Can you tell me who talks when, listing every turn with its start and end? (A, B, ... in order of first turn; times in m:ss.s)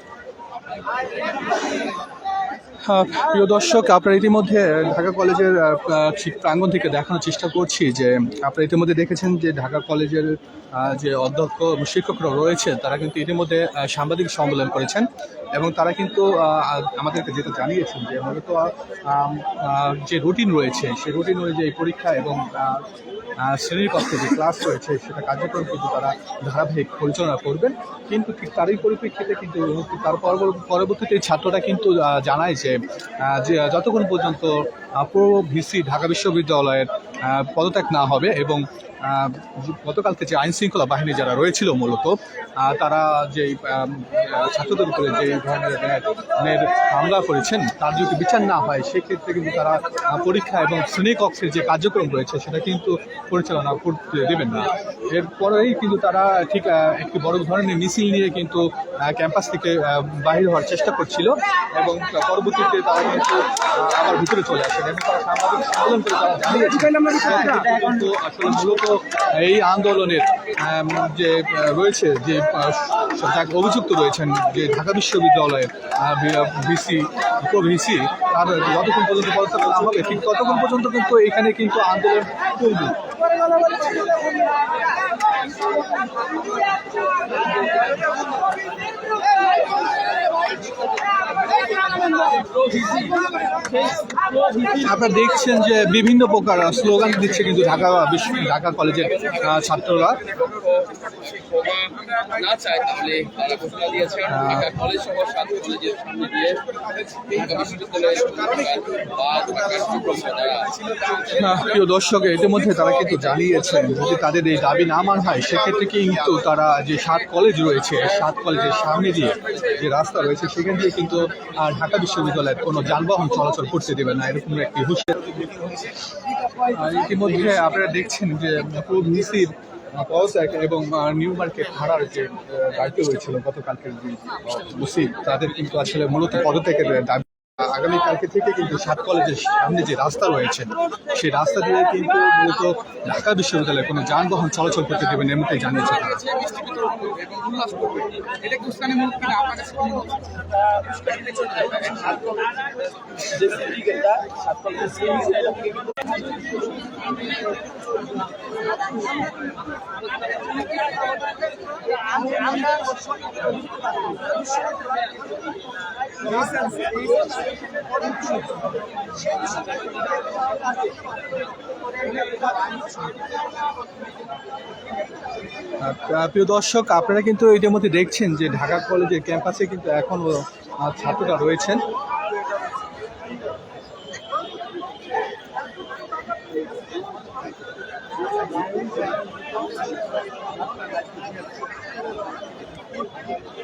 0:02.7-1:23.0 A
1:32.3-1:33.2 B
1:34.7-1:40.3 A
1:41.3-1:50.8 B
1:44.2-1:44.8 A
1:51.2-2:05.4 A
2:06.6-2:26.9 A
2:26.9-2:30.0 B
2:28.5-2:29.7 A
2:30.9-2:32.4 B
2:33.5-2:35.8 B
2:55.8-3:01.8 A